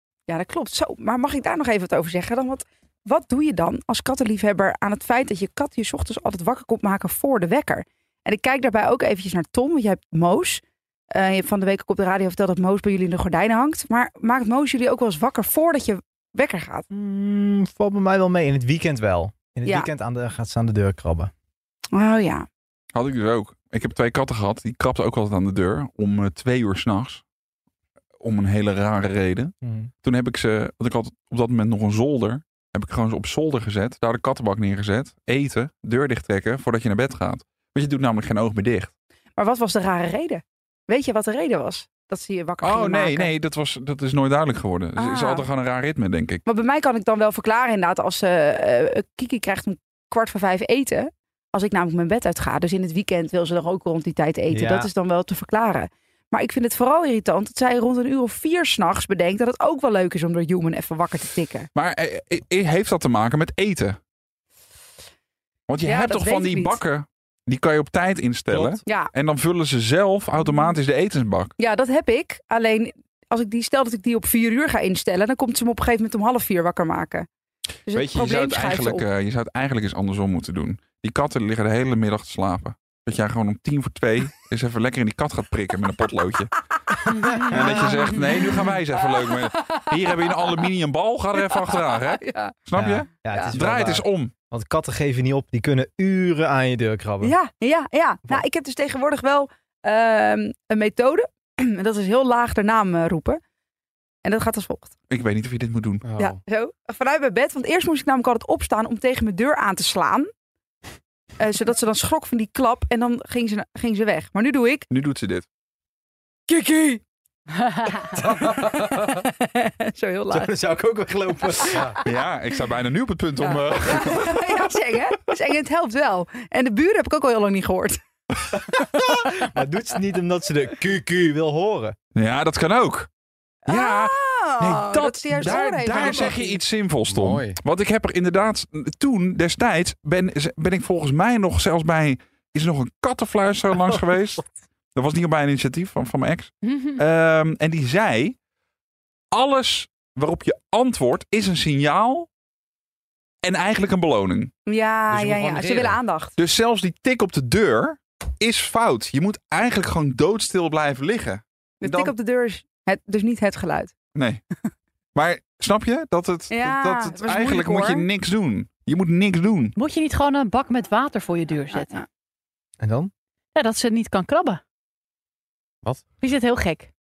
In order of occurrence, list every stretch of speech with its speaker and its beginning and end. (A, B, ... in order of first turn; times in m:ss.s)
0:00.3-0:10.6 A
0:11.1-0:16.9 A
0:16.9-0:21.3 B
0:19.6-0:19.9 A
0:21.9-0:22.5 A
0:22.9-0:27.2 C
0:28.2-0:38.9 C
0:29.6-0:29.9 B
0:39.4-0:43.3 A
0:42.6-0:46.4 C
0:45.0-0:45.5 A
0:46.5-1:01.7 A
0:54.5-0:54.9 B
1:01.8-1:04.0 C
1:05.7-1:11.5 C
1:05.8-1:06.8 A
1:08.5-1:08.8 D
1:08.8-1:09.1 A
1:11.6-1:17.3 A
1:17.9-1:19.0 A
1:17.9-1:26.5 C
1:27.0-1:28.7 A
1:27.3-1:34.3 C
1:29.3-1:29.8 A
1:31.4-1:32.6 A
1:32.7-1:37.4 B
1:33.3-1:33.6 A
1:37.2-1:43.4 A
1:44.2-1:44.9 A
1:45.1-1:46.0 C
1:46.0-1:46.4 D
1:46.2-1:50.3 A
1:51.4-1:54.9 A
1:54.9-1:55.5 C
1:56.5-1:57.0 A
1:57.6-1:58.3 E
1:58.3-2:00.5 A
2:00.3-2:02.0 B
2:02.0-2:04.4 C
2:03.9-2:08.0 A
2:08.6-2:12.0 B
2:08.7-2:09.5 A
2:12.2-2:13.1 C
2:13.7-2:16.6 A
2:13.7-2:24.4 C
2:15.5-2:16.3 B
2:17.1-2:17.6 D
2:25.0-2:28.4 C
2:26.7-2:27.0 E
2:29.3-2:32.3 C
2:33.4-2:34.5 C
2:34.7-2:36.4 A
2:35.1-2:36.0 D
2:36.4-2:42.1 C
2:41.8-2:43.9 A
2:44.2-2:44.4 C
2:45.2-2:49.8 C
2:46.5-2:48.1 A
2:49.8-2:52.0 E
2:51.7-2:52.0 A
2:52.8-2:53.1 B
2:53.6-2:54.6 E
2:56.2-2:56.9 E